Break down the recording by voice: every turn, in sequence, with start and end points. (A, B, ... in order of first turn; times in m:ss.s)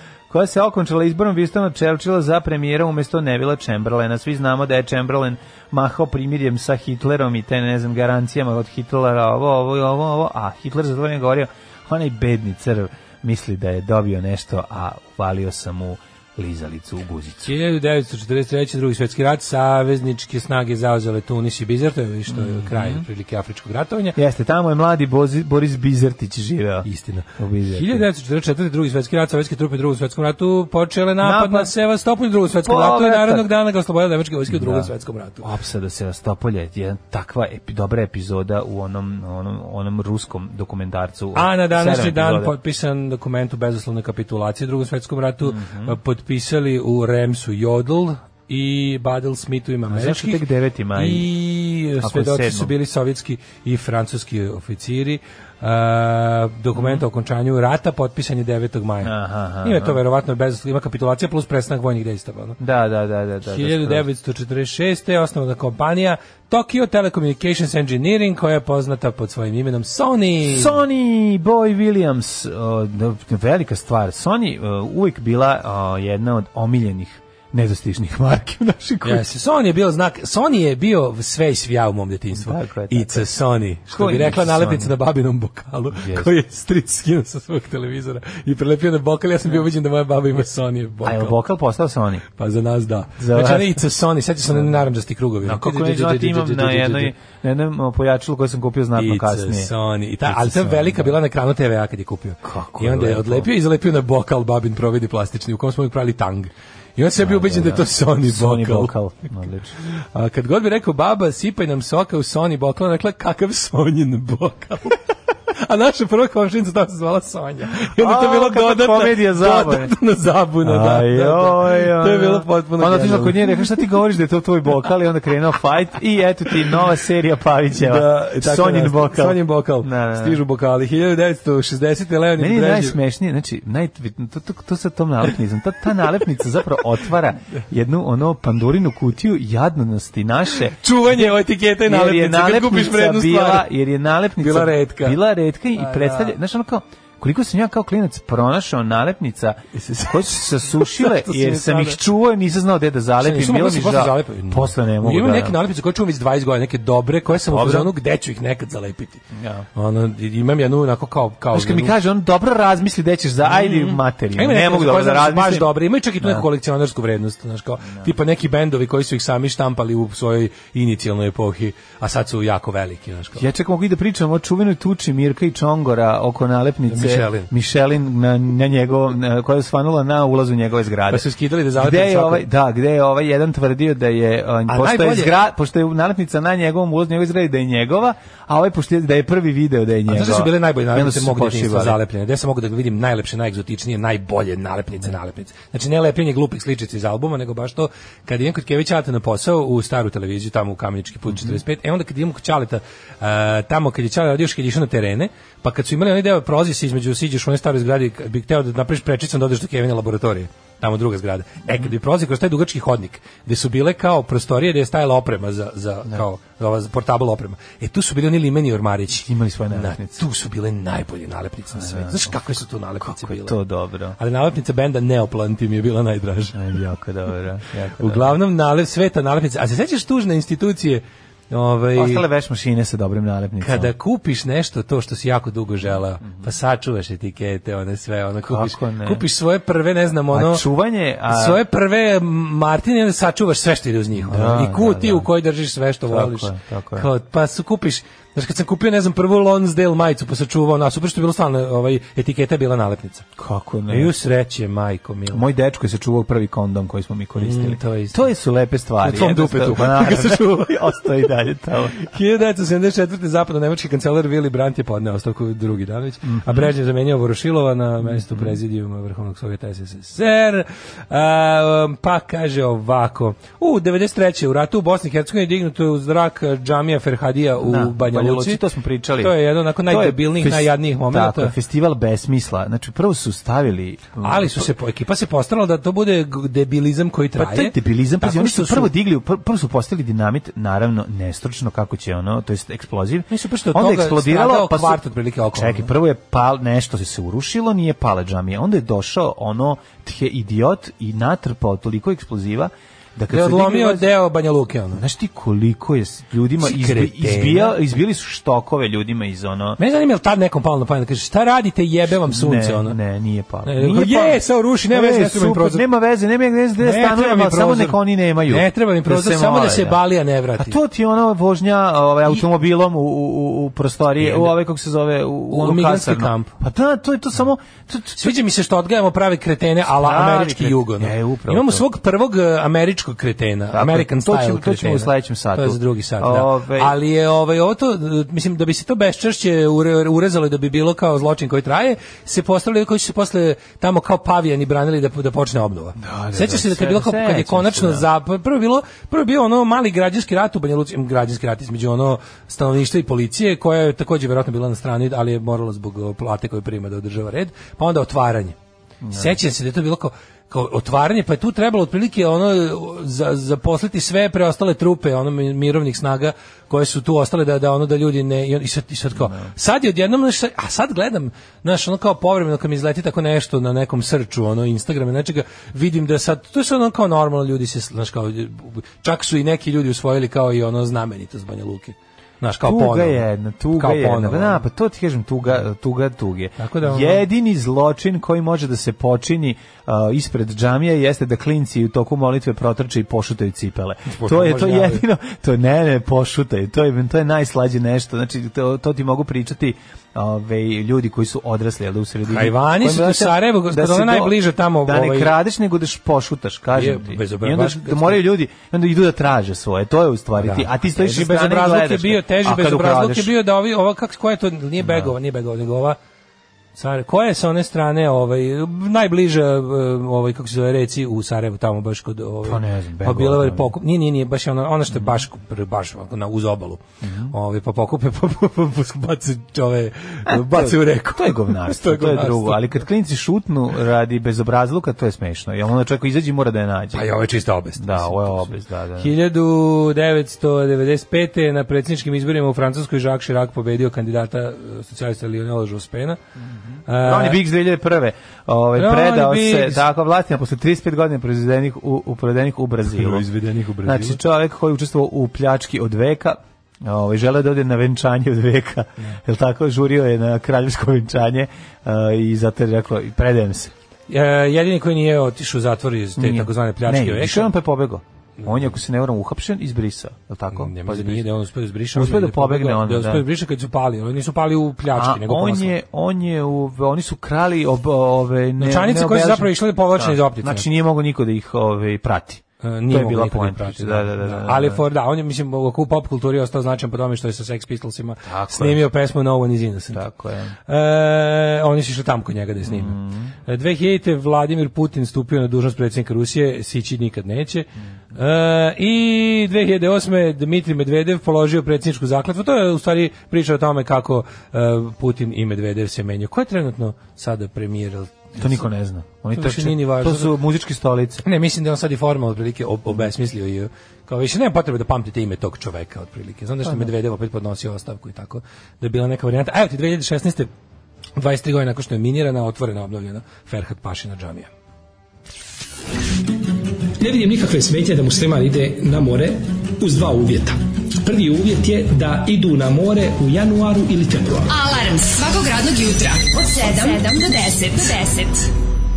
0:00.3-0:17.5 A
0:17.4-0:24.2 B
0:22.3-0:23.0 A
0:24.2-0:26.8 A
0:26.8-0:35.4 B
0:27.4-0:28.0 A
0:31.2-0:31.7 A
0:32.6-0:33.5 A
0:34.5-0:34.9 A
0:35.4-0:42.5 A
0:41.3-0:50.4 B
0:45.4-0:46.0 A
0:49.9-0:51.3 A
0:51.0-0:59.1 B
0:52.0-0:52.7 A
0:56.7-0:57.0 A
0:59.0-1:00.0 A
0:59.6-1:02.6 B
1:02.6-1:04.0 A
1:03.4-1:10.8 B
1:10.5-1:19.2 A
1:19.0-1:31.3 B
1:22.3-1:23.3 A
1:23.9-1:24.9 A
1:26.0-1:26.3 A
1:31.0-1:32.2 A
1:32.4-1:37.1 B
1:33.2-1:33.8 A
1:34.5-1:34.8 A
1:35.4-1:39.7 A
1:39.0-1:48.9 B
1:40.2-1:41.1 A
1:42.4-1:43.5 A
1:47.2-1:49.7 A
1:50.0-1:55.0 B
1:55.6-2:03.6 B
1:58.0-1:59.9 A
2:00.6-2:10.4 A
2:07.7-2:13.0 B
2:12.4-2:35.6 A
2:20.8-2:23.7 B
2:24.4-2:25.2 B
2:25.8-2:26.3 B
2:29.7-2:32.0 B
2:33.2-2:39.2 B
2:37.3-2:37.9 A
2:39.3-2:39.7 A
2:39.7-2:41.9 B
2:41.5-2:45.7 A
2:43.4-2:53.4 B
2:53.4-3:12.0 A
2:56.9-2:57.5 B
3:01.1-3:02.4 B
3:04.7-3:05.3 B
3:10.1-3:43.5 B
3:39.2-3:40.2 A
3:41.7-3:42.4 A
3:43.0-3:44.2 A
3:44.2-3:46.6 B
3:46.5-3:48.3 A
3:48.0-3:52.2 B
3:51.9-3:53.9 A
3:53.6-4:00.6 B
3:58.5-3:59.2 A
4:00.3-4:01.6 A
4:01.3-4:13.2 B
4:04.2-4:05.3 A
4:06.1-4:07.1 A
4:13.4-4:14.1 A
4:13.9-4:15.4 B
4:15.3-4:22.1 A
4:17.4-4:18.3 B
4:19.0-4:21.1 B
4:22.0-4:38.6 B
4:26.2-4:26.7 A
4:28.1-4:28.6 A
4:37.6-4:44.7 A
4:39.2-4:41.5 B
4:44.2-4:48.9 B
4:47.4-5:04.1 A
4:53.3-4:55.9 B
5:03.3-5:05.0 B
5:04.9-5:09.8 A
5:06.6-5:07.8 B
5:09.8-5:13.0 B
5:12.3-5:20.0 A
5:13.6-5:15.8 B
5:16.8-5:18.0 B
5:18.5-5:20.8 B
5:20.6-5:28.3 A
5:24.2-5:24.5 B
5:25.5-5:26.5 B
5:28.2-5:58.5 B
5:29.9-5:31.8 A
5:33.7-5:36.9 A
5:46.0-5:48.0 A
5:59.0-5:59.3 A
5:59.1-6:23.2 B
6:09.2-6:09.5 A
6:22.6-6:53.3 A
6:23.8-6:24.6 B
6:26.6-6:27.2 B
6:34.1-6:35.0 B
6:42.3-6:45.3 B
6:46.7-6:48.2 B
6:50.4-6:56.0 B
6:54.8-6:55.1 A
6:56.8-7:12.6 B
7:02.4-7:03.7 A
7:07.0-7:07.3 A
7:10.3-7:17.1 A
7:16.9-7:26.2 B
7:17.8-7:19.1 A
7:26.7-7:33.2 A
7:26.9-7:27.4 B
7:28.8-7:29.8 B
7:32.9-7:34.2 B
7:33.8-7:43.7 A
7:44.1-7:47.5 B
7:46.2-7:51.2 A
7:48.4-7:48.7 B
7:50.5-7:55.7 B
7:51.9-7:53.2 A
7:54.9-8:04.8 A
7:58.6-8:00.6 B
8:02.6-8:10.0 B
8:08.2-8:08.8 A
8:09.9-8:10.5 A
8:10.7-8:13.0 B
8:12.7-8:13.3 A
8:13.5-8:28.6 B
8:28.4-8:31.2 A
8:29.3-8:30.3 B
8:31.2-8:40.5 B
8:41.2-8:44.5 B
8:47.0-8:54.5 C
8:54.5-8:58.5 D